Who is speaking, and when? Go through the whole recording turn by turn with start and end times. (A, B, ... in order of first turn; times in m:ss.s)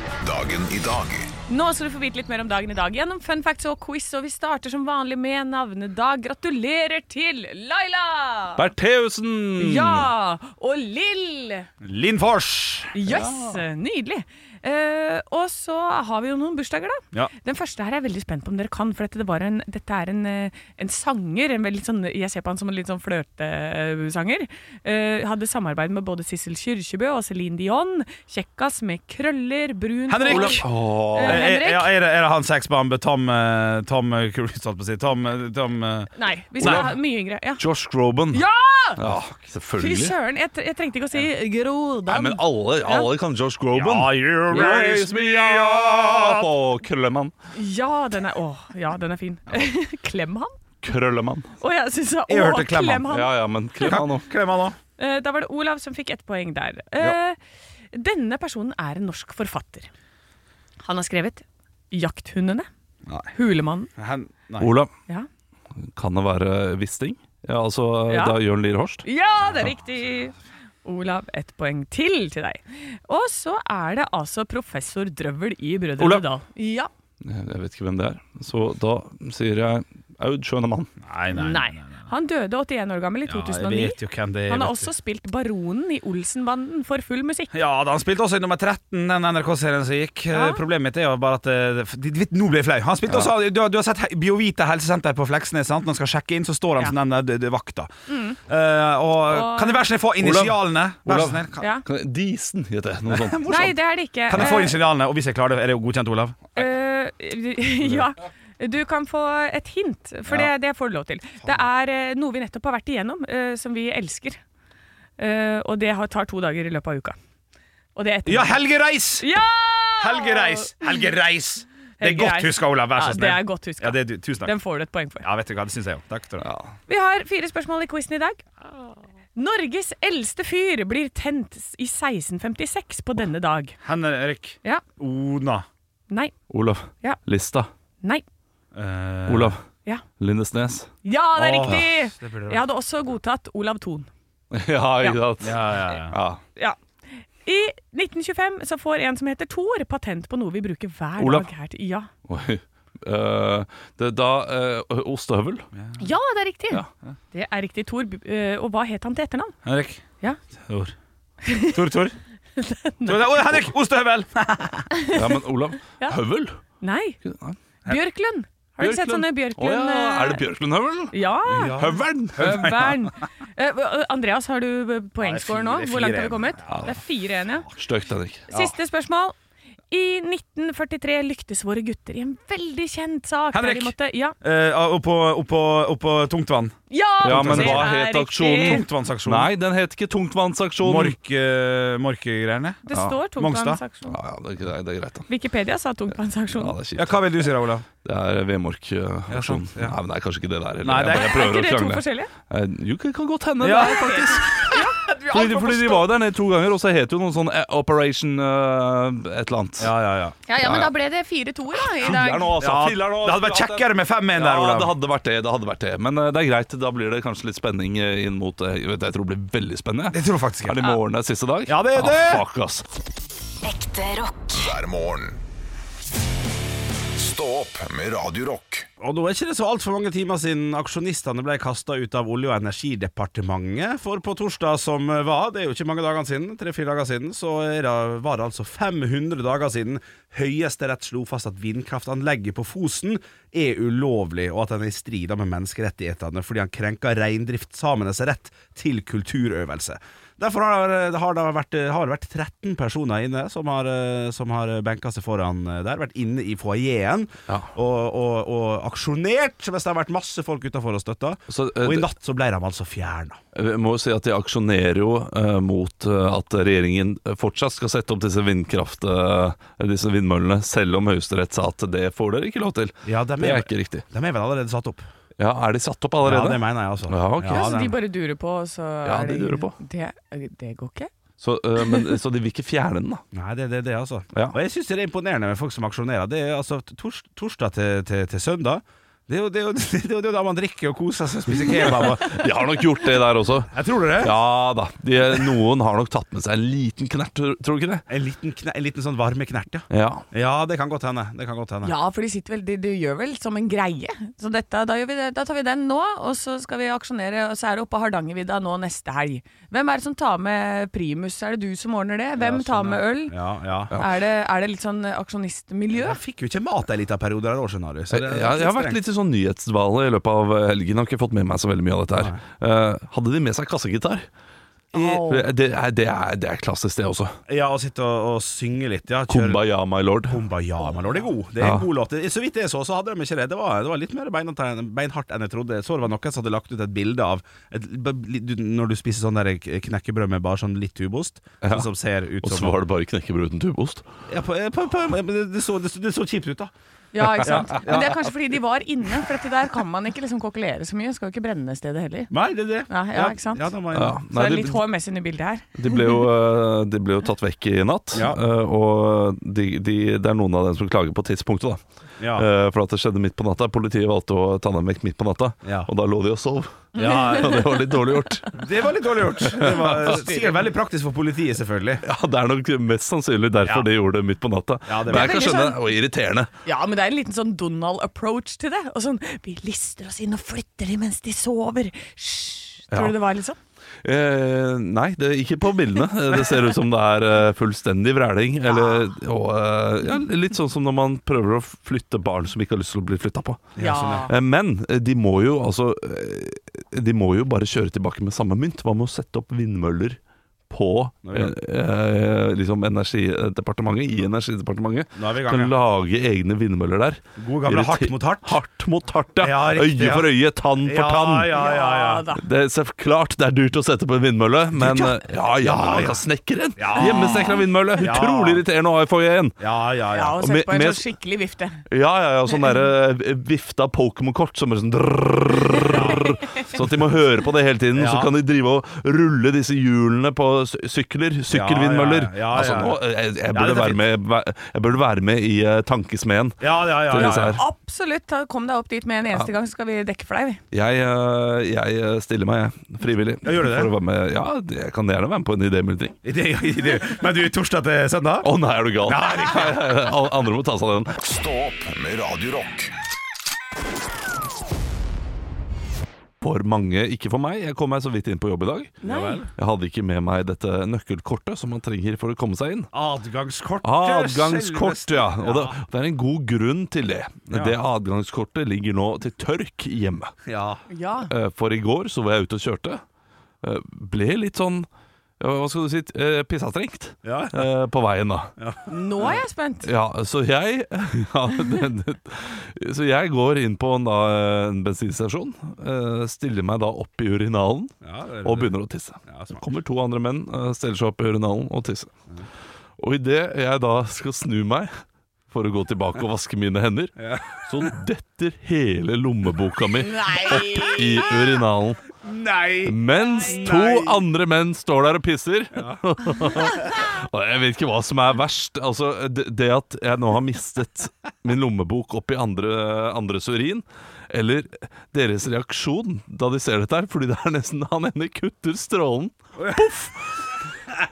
0:00.2-0:01.3 A
0:01.5-0:08.6 B
0:08.6-0:10.1 C
0:09.6-0:11.7 B
0:11.8-0:13.0 D
0:12.9-0:31.9 B
0:13.1-0:13.6 C
0:30.1-0:36.9 D
0:30.3-0:31.5 C
0:36.2-0:37.6 B
0:36.6-0:37.0 C
0:37.6-0:38.4 C
0:38.3-0:39.0 B
0:39.0-0:40.2 C
0:39.8-0:43.1 B
0:42.1-0:47.3 C
0:43.7-0:46.5 D
0:47.6-0:50.6 B
0:50.8-0:51.5 C
0:51.6-0:54.0 B
0:52.3-0:53.1 D
0:53.1-0:54.3 C
0:53.8-0:54.8 D
0:55.0-0:57.4 B
0:57.9-0:59.9 B
1:00.8-1:02.7 B
1:03.1-1:03.3 D
1:03.3-1:03.9 B
1:04.0-1:04.7 D
1:04.6-1:04.9 C
1:05.8-1:09.0 C
1:08.1-1:08.4 B
1:09.0-1:16.9 B
1:16.0-1:16.2 C
1:17.2-1:20.9 C
1:21.0-1:22.1 D
1:21.3-1:27.5 B
1:23.3-1:24.9 D
1:27.5-1:41.6 D
1:30.3-1:30.6 B
1:38.1-1:38.4 B
1:39.3-1:39.9 B
1:40.2-1:43.8 C
1:41.6-1:41.8 B
1:43.1-1:43.7 D
1:43.5-1:44.8 B
1:44.3-1:46.5 D
1:46.6-1:54.4 B
1:55.2-1:57.2 B
1:58.0-1:58.6 B
1:58.3-1:59.3 D
1:59.2-2:00.9 B
2:00.0-2:04.6 D
2:02.0-2:05.3 B
2:05.2-2:06.5 D
2:06.4-2:06.7 C
2:06.9-2:08.4 B
2:09.4-2:13.8 B
2:13.8-2:15.7 D
2:16.1-2:16.3 B
2:16.5-2:17.7 C
2:18.7-2:19.6 D
2:19.3-2:19.6 C
2:20.2-2:20.9 C
2:21.0-2:24.1 B
2:21.4-2:22.6 D
2:24.5-2:26.4 C
2:25.4-2:26.2 D
2:27.4-2:32.1 B
2:31.2-2:31.5 C
2:32.3-2:35.6 C
2:35.8-2:36.0 D
2:36.0-2:39.6 B
2:39.6-2:40.0 D
2:40.6-2:40.9 D
2:41.4-2:41.8 B
2:41.6-2:42.2 D
2:42.6-2:43.4 B
2:43.0-2:44.9 D
2:45.0-2:45.3 B
2:45.1-2:46.6 C
2:46.8-2:47.2 B
2:47.2-2:47.6 C
2:47.9-2:50.4 B
2:48.8-2:51.2 C
2:51.1-2:51.8 B
2:51.5-2:52.9 D
2:51.8-2:52.9 C
2:52.4-2:57.7 B
2:55.2-2:56.9 D
2:57.8-2:58.5 C
2:58.5-2:59.4 B
2:59.9-3:04.4 B
3:03.5-3:07.9 D
3:06.9-3:08.8 B
3:07.2-3:11.2 C
3:08.6-3:09.5 D
3:10.8-3:13.8 D
3:12.9-3:14.2 B
3:14.1-3:15.3 C
3:15.3-3:16.8 B
3:16.5-3:17.3 C
3:17.0-3:17.9 D
3:18.0-3:29.9 C
3:19.3-3:20.0 D
3:20.8-3:21.4 D
3:21.1-3:22.3 B
3:23.6-3:24.1 D
3:23.7-3:26.0 B
3:29.8-3:30.4 D
3:30.5-3:32.6 B
3:30.6-3:30.9 C
3:31.8-3:42.8 C
3:32.6-3:35.0 D
3:40.1-3:40.9 D
3:41.7-3:42.4 D
3:43.6-3:45.4 A
3:47.2-3:48.9 A
3:49.0-4:23.4 D
4:21.5-4:22.1 C
4:23.5-4:34.0 C
4:33.0-4:35.0 D
4:35.4-4:37.8 C
4:36.2-4:38.0 D
4:37.5-4:41.1 B
4:39.0-4:39.8 C
4:41.4-4:43.2 C
4:43.3-4:52.4 D
4:51.6-4:58.0 C
4:53.7-4:54.4 D
4:58.1-5:01.9 D
4:59.9-5:00.2 C
5:01.8-5:13.4 B
5:12.4-5:13.9 D
5:13.9-5:16.2 B
5:15.9-5:19.0 D
5:18.1-5:24.3 C
5:22.2-5:22.4 D
5:24.9-5:25.5 B
5:25.0-5:27.4 C
5:27.5-5:29.6 D
5:29.3-5:30.4 C
5:30.2-5:42.8 D
5:31.6-5:31.9 C
5:41.6-5:41.9 C
5:42.4-5:44.1 C
5:44.3-5:46.7 D
5:47.1-5:52.3 B
5:47.4-5:48.2 D
5:52.3-5:54.2 D
5:52.9-5:53.7 B
5:53.9-5:54.8 C
5:54.3-5:56.2 B
5:55.8-6:01.8 C
5:58.1-5:58.4 D
6:02.2-6:02.5 D
6:02.3-6:08.6 C
6:05.6-6:05.9 D
6:07.0-6:07.6 B
6:07.0-6:07.7 D
6:08.5-6:12.0 D
6:09.4-6:10.3 C
6:12.0-6:16.5 C
6:14.9-6:15.5 D
6:15.1-6:15.8 B
6:16.6-6:23.6 B
6:22.9-6:23.2 C
6:24.0-6:40.2 C
6:28.7-6:29.1 B
6:33.8-6:34.3 D
6:33.8-6:34.3 B
6:40.7-6:51.6 C
6:41.3-6:41.6 D
6:45.2-6:45.7 D
6:47.4-6:48.6 D
6:49.4-6:52.2 D
6:51.5-6:52.4 B
6:52.4-6:59.6 C
6:54.7-6:56.2 D
6:56.8-6:58.6 D
6:57.0-6:57.7 B
6:59.6-7:00.4 D
7:00.1-7:01.8 B
7:00.4-7:01.0 C
7:01.9-7:17.6 C
7:02.5-7:02.8 B
7:05.8-7:06.6 B
7:05.9-7:06.3 D
7:07.9-7:08.3 D
7:11.5-7:14.0 D
7:16.6-7:17.6 D
7:17.2-7:20.6 B
7:20.7-7:26.2 C
7:23.4-7:23.9 D
7:26.2-7:28.5 D
7:28.4-7:31.2 C
7:29.0-7:29.8 D
7:31.2-7:32.9 A
7:36.4-7:39.0 C
7:39.0-7:39.5 B
7:39.0-7:39.5 D
7:39.5-7:42.9 C
7:42.9-7:45.8 D
7:43.8-7:50.3 C
7:47.5-7:47.8 D
7:50.5-7:50.8 D
7:50.9-7:51.3 B
7:51.3-7:53.0 C
7:53.6-7:54.9 C
7:55.4-7:58.5 C
7:57.2-7:57.7 D
7:58.6-7:59.4 D
7:58.9-7:59.9 B
7:59.8-8:12.1 C
8:08.0-8:08.8 D
8:09.3-8:09.7 D
8:13.0-8:14.9 C
8:15.5-8:22.1 C
8:17.2-8:17.9 D
8:20.0-8:21.5 B
8:22.2-8:24.2 D
8:22.8-8:40.6 C
8:39.6-8:39.8 D